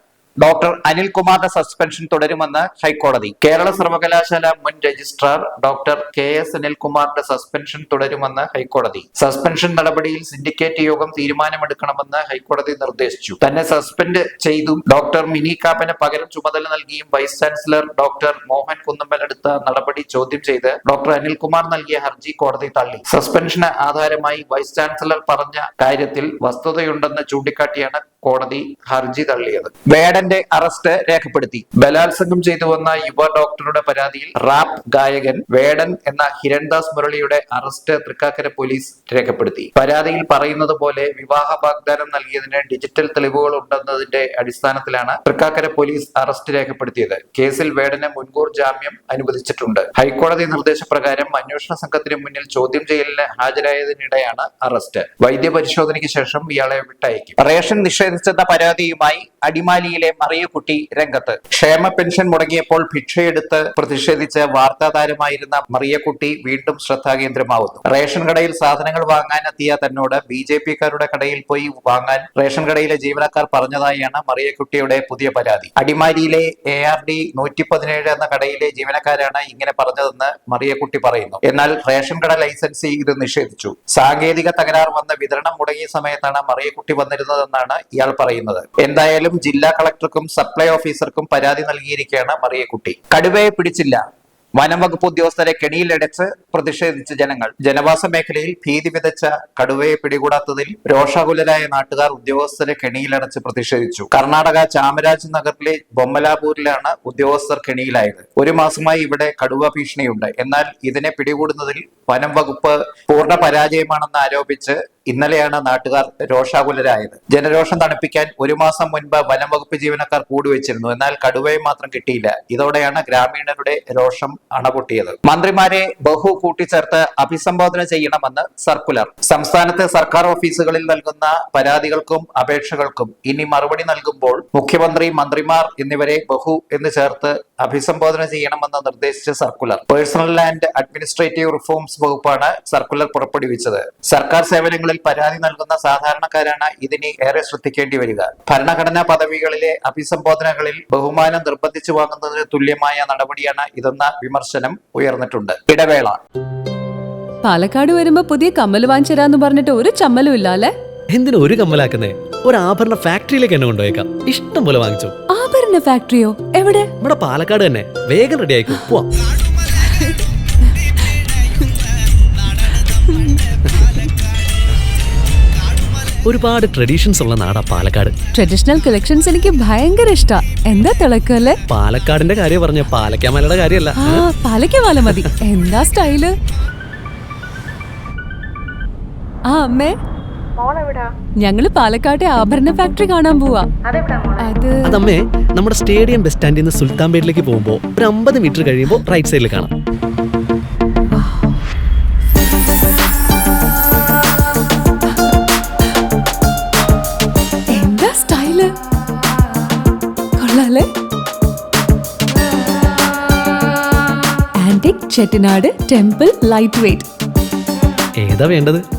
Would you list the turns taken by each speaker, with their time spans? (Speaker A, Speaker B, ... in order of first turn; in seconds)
Speaker A: 0.4-94.0, 94.6-156.2
Speaker B: 157.4-160.7, 165.3-166.9, 178.3-181.6, 184.0-186.3, 189.5-190.0, 191.4-193.7, 194.4-194.9, 207.7-208.7, 210.4-210.9, 214.6-217.1
Speaker C: 161.1-165.2, 167.0-169.1, 176.2-178.2, 181.7-184.3, 185.0-185.3, 194.8-199.7, 218.2-218.8